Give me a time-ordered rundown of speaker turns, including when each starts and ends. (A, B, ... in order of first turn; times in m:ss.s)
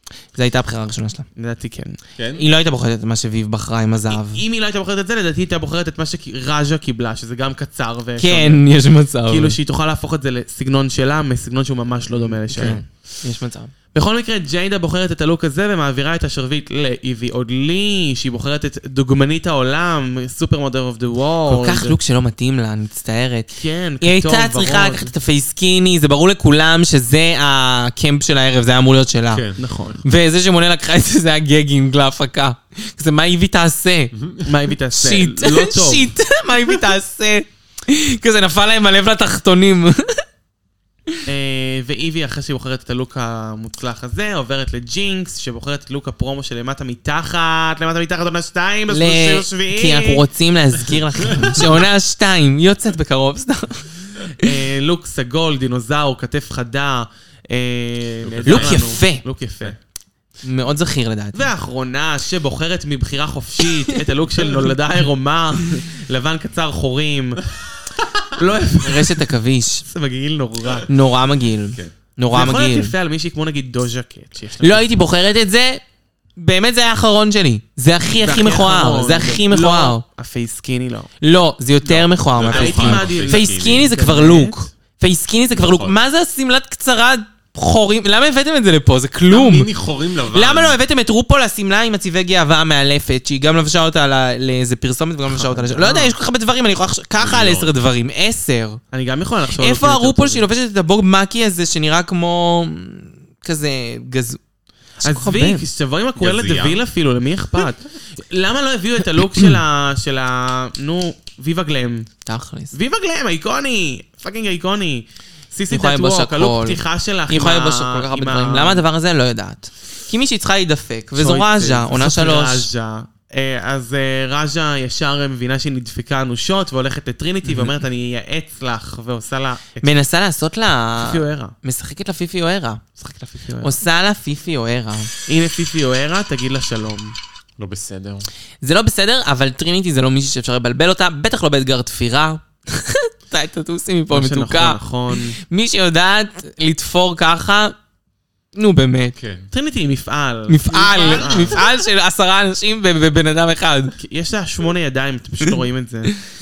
0:00.3-0:01.2 A
0:01.4-0:02.0 B
0:02.2-0:02.4 C
0:02.4-0:04.4 A
0:04.1-0:08.6 B
0:08.2-0:09.6 A
0:09.3-0:12.8 B
0:12.5-0:12.8 C
0:12.5-0:13.7 A
0:13.9-0:22.0 B
0:21.5-0:23.5 A
0:23.6-0:25.1 B
0:24.0-0:29.4 A
0:29.3-0:29.6 C
0:29.6-0:30.0 B
0:30.0-0:34.1 A
0:34.1-0:34.5 C
0:34.4-0:36.1 B
0:34.9-0:40.2 A
0:41.2-0:50.2 B
0:48.9-0:54.5 A
0:51.3-0:51.8 C
0:54.3-0:59.8 B
0:58.2-0:59.0 C
0:58.4-0:59.2 A
1:00.4-1:01.5 A
1:01.3-1:07.5 B
1:08.3-1:09.3 B
1:08.8-1:09.8 A
1:09.8-1:10.9 B
1:10.9-1:12.9 A
1:12.3-1:14.9 B
1:14.6-1:15.8 A
1:16.4-1:20.0 A
1:18.2-1:21.1 B
1:21.2-1:29.7 A
1:21.8-1:23.9 C
1:22.5-1:24.6 B
1:25.5-1:25.9 C
1:29.3-1:30.8 C
1:30.3-1:38.8 A
1:35.3-1:36.1 B
1:37.2-1:37.7 C
1:38.9-1:40.5 B
1:39.6-1:44.4 A
1:45.0-1:45.6 A
1:45.0-1:52.1 B
1:46.2-1:46.8 C
1:49.2-1:49.6 A
1:52.2-1:52.7 A
1:52.7-1:58.8 B
1:55.7-2:02.7 A
2:01.1-2:10.0 B
2:09.8-2:12.8 A
2:11.0-2:11.5 B
2:13.0-2:13.7 B
2:13.6-2:15.1 A
2:15.3-2:17.2 B
2:17.6-2:18.3 C
2:18.6-2:27.8 A
2:24.1-2:25.4 B
2:28.5-2:29.1 A
2:29.1-2:29.5 C
2:29.5-2:31.6 B
2:30.5-2:33.9 A
2:30.9-2:31.6 C
2:34.0-2:36.1 B